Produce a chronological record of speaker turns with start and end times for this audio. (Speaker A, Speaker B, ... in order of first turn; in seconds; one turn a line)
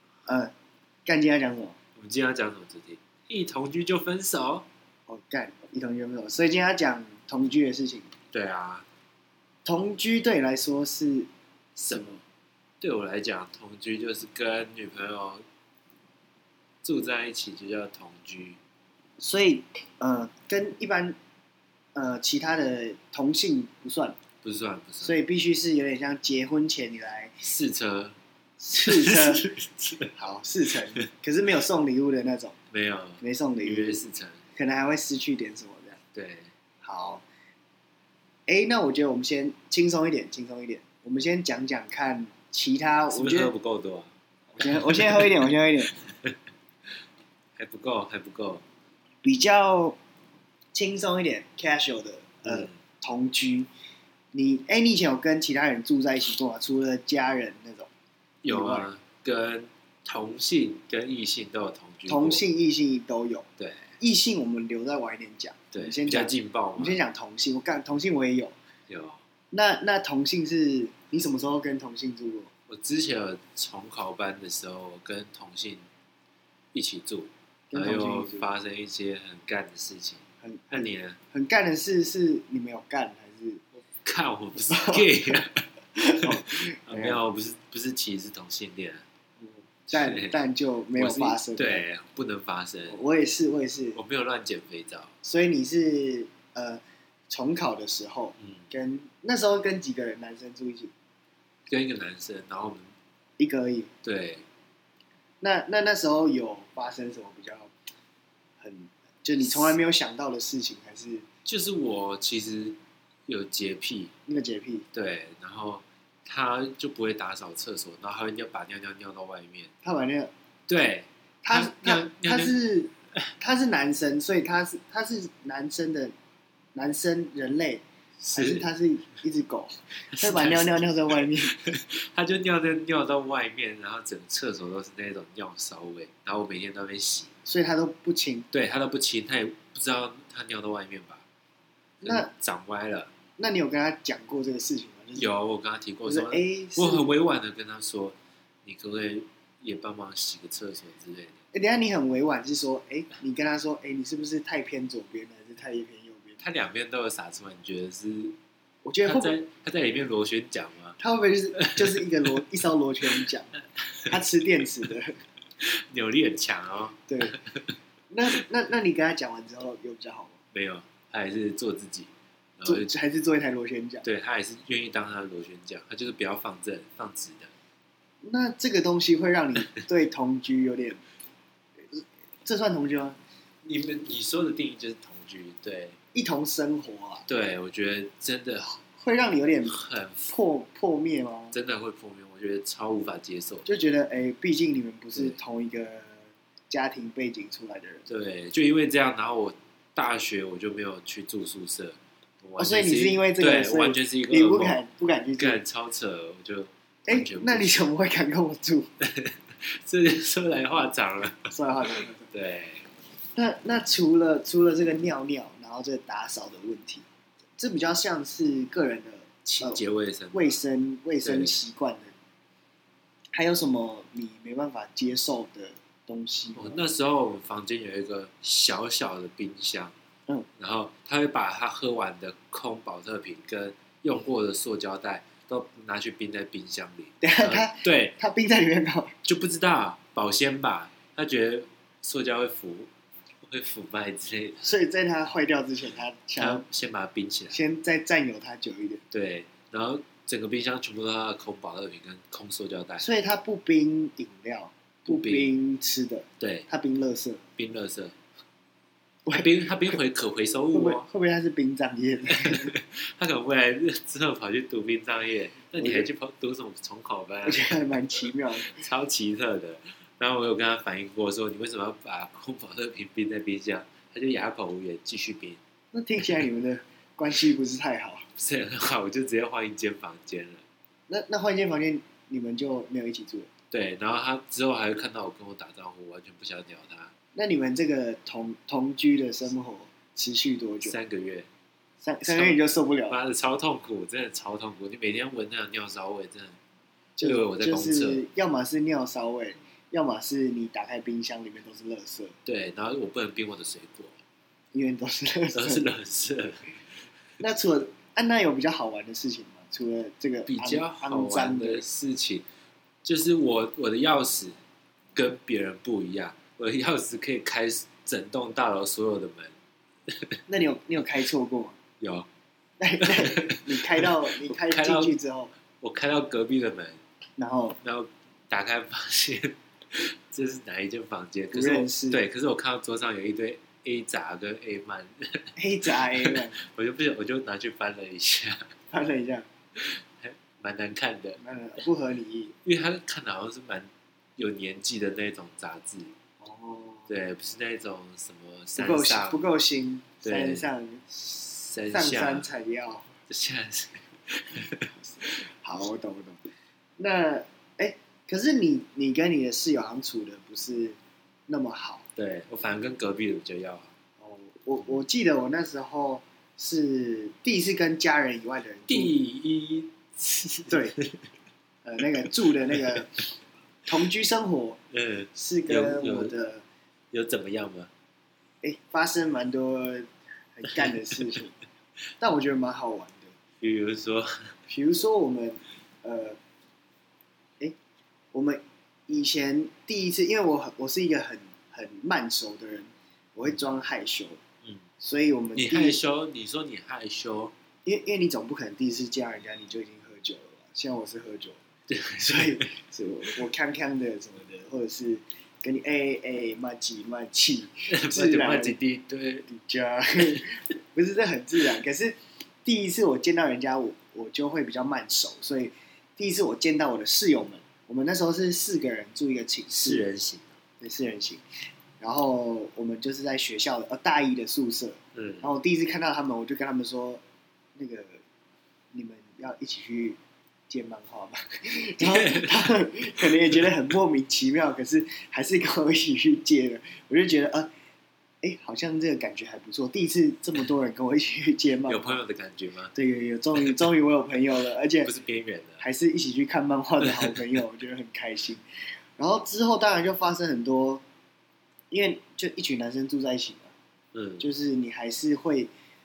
Speaker A: 0.3-0.5
Speaker A: 1.1-1.8
Speaker B: 2.0-4.7
Speaker A: 5.1-8.1
Speaker B: 8.3-8.8
Speaker A: 9.7-11.3
Speaker B: 11.8-12.2
Speaker A: 11.9-12.2
Speaker B: 12.8-15.4
Speaker B: 16.8-18.6
Speaker A: 19.2-21.2
Speaker A: 21.9-24.2
Speaker B: 24.4-25.2
Speaker A: 25.0-27.3
Speaker B: 27.4-28.2
Speaker A: 28.6-29.5
Speaker B: 28.8-30.1
Speaker A: 30.2-32.5
Speaker B: 32.7-34.4
Speaker A: 33.2-34.0
Speaker A: 34.5-36.0
Speaker B: 36.1-36.5
Speaker A: 36.8-37.2
Speaker A: 38.5-43.5
Speaker B: 43.1-46.4
Speaker A: 44.5-45.9
Speaker B: 47.5-48.6
Speaker A: 49.2-50.0
Speaker A: 50.7-53.7
Speaker B: 52.4-52.8
Speaker A: 54.3-57.9
Speaker B: 58.4-62.4
Speaker A: 58.5-58.9
Speaker A: 62.1-63.5
Speaker B: 63.6-63.9
Speaker A: 64.0-68.5
Speaker B: 65.7-67.0
Speaker B: 68.9-69.2
Speaker A: 69.5-72.5
Speaker B: 72.7-75.9
Speaker B: 76.7-81.2
Speaker A: 77.7-78.5
Speaker A: 80.4-83.6
Speaker B: 83.9-85.6
Speaker A: 84.7-87.2
Speaker B: 86.2-89.0
Speaker A: 89.4-91.8
Speaker B: 89.9-90.4
Speaker B: 90.9-93.0
Speaker A: 92.9-94.0
Speaker B: 94.0-95.1
Speaker A: 95.2-100.9
Speaker B: 98.4-98.7
Speaker B: 101.7-102.9
Speaker A: 103.4-103.9
Speaker B: 104.0-104.5
Speaker A: 105.4-107.7
Speaker A: 108.6-111.2
Speaker B: 109.4-109.8
Speaker B: 111.4-114.1
Speaker A: 114.3-114.9
Speaker B: 114.9-119.7
Speaker A: 119.8-120.3
Speaker B: 120.7-122.5
Speaker A: 121.4-126.1
Speaker A: 126.7-131.6
Speaker B: 128.2-128.7
Speaker B: 130.1-137.3
Speaker A: 137.5-138.5
Speaker B: 138.5-141.3
Speaker B: 142.0-143.1
Speaker A: 142.0-142.3
Speaker A: 143.4-145.3
Speaker B: 145.2-151.4
Speaker A: 146.1-147.1
Speaker A: 151.5-156.4
Speaker B: 156.4-158.4
Speaker A: 158.8-159.3
Speaker B: 159.0-161.0
Speaker A: 161.0-163.5
Speaker B: 161.6-162.0
Speaker B: 163.1-164.2
Speaker A: 164.1-165.2
Speaker B: 165.6-167.7
Speaker A: 167.1-167.4
Speaker A: 168.1-170.4
Speaker B: 170.5-172.9
Speaker A: 172.7-174.1
Speaker B: 174.0-177.5
Speaker A: 178.2-181.0
Speaker A: 181.9-183.2
Speaker B: 183.6-186.0
Speaker A: 186.1-187.3
Speaker B: 187.3-188.8
Speaker A: 188.9-191.6
Speaker B: 189.7-190.3
Speaker B: 191.5-193.7
Speaker A: 193.7-198.1
Speaker B: 198.1-204.8
Speaker A: 202.6-205.6
Speaker B: 205.4-207.8
Speaker A: 207.1-208.9
Speaker B: 209.0-211.5
Speaker A: 211.5-212.3
Speaker B: 212.3-212.9
Speaker A: 213.4-217.1
Speaker A: 217.6-219.8
Speaker B: 219.4-220.6
Speaker A: 220.3-222.1
Speaker B: 221.2-221.6
Speaker A: 223.3-226.8
Speaker B: 226.6-229.9
Speaker B: 230.6-238.2
Speaker A: 237.2-239.2
Speaker B: 239.2-242.9
Speaker B: 243.4-244.7
Speaker A: 244.6-246.6
Speaker B: 246.4-247.6
Speaker A: 247.5-249.0
Speaker B: 249.1-253.1
Speaker A: 253.0-257.4
Speaker B: 255.1-255.5
Speaker B: 256.4-256.7
Speaker B: 257.6-258.1
Speaker B: 259.3-261.1
Speaker A: 260.7-262.7
Speaker B: 262.3-267.7
Speaker A: 265.8-266.1
Speaker A: 267.4-268.8
Speaker B: 268.6-275.6
Speaker A: 275.9-278.3
Speaker B: 278.4-280.6
Speaker A: 281.1-283.5
Speaker B: 283.7-287.1
Speaker A: 287.3-290.9
Speaker B: 290.9-291.5
Speaker A: 292.0-293.2
Speaker B: 292.3-292.6
Speaker B: 293.1-296.6
Speaker A: 297.2-302.4
Speaker B: 297.2-298.3
Speaker B: 302.4-304.2
Speaker A: 304.7-305.8
Speaker B: 305.5-307.0
Speaker A: 307.4-311.8
Speaker B: 310.5-312.4
Speaker B: 313.0-314.6
Speaker B: 315.1-319.5
Speaker B: 320.1-320.4
Speaker A: 320.5-321.8
Speaker B: 322.0-322.3
Speaker A: 322.8-325.5
Speaker B: 323.0-325.2
Speaker B: 325.8-327.0
Speaker A: 327.4-327.8
Speaker B: 327.8-338.7
Speaker A: 331.5-332.2
Speaker A: 335.6-336.6
Speaker A: 338.9-339.5
Speaker B: 339.8-341.4
Speaker A: 341.4-342.6
Speaker B: 342.6-346.1
Speaker A: 346.4-347.1
Speaker B: 347.1-349.4
Speaker A: 348.8-351.1
Speaker B: 350.2-352.5
Speaker A: 351.9-353.1
Speaker B: 353.3-354.9
Speaker A: 354.9-356.4
Speaker A: 357.0-361.0
Speaker A: 361.5-362.1
Speaker B: 362.1-363.9
Speaker A: 364.2-369.2
Speaker B: 368.9-371.3
Speaker A: 370.7-370.9
Speaker A: 371.8-373.2
Speaker B: 372.2-373.1
Speaker A: 373.9-374.8
Speaker B: 374.9-376.3
Speaker A: 375.3-376.6
Speaker B: 377.1-377.9
Speaker A: 378.6-381.6
Speaker B: 380.7-381.0
Speaker A: 382.2-383.3
Speaker B: 383.6-384.6
Speaker A: 384.7-386.4
Speaker A: 388.3-394.4
Speaker A: 395.0-396.0
Speaker B: 395.5-397.5
Speaker A: 397.8-401.6
Speaker B: 401.9-402.6
Speaker A: 402.2-408.8
Speaker B: 407.9-409.5
Speaker A: 409.5-420.0
Speaker B: 419.7-420.6
Speaker A: 420.8-421.4
Speaker A: 422.0-427.2
Speaker B: 425.1-425.5
Speaker A: 427.8-428.2
Speaker A: 428.9-430.2
Speaker A: 430.7-437.7
Speaker B: 432.0-432.6
Speaker A: 438.4-442.2
Speaker B: 441.9-442.9
Speaker A: 442.9-445.1
Speaker B: 445.0-445.8
Speaker A: 445.8-448.6
Speaker B: 447.0-447.3
Speaker A: 449.2-451.0
Speaker A: 451.9-453.7
Speaker B: 454.1-454.5
Speaker A: 454.4-455.7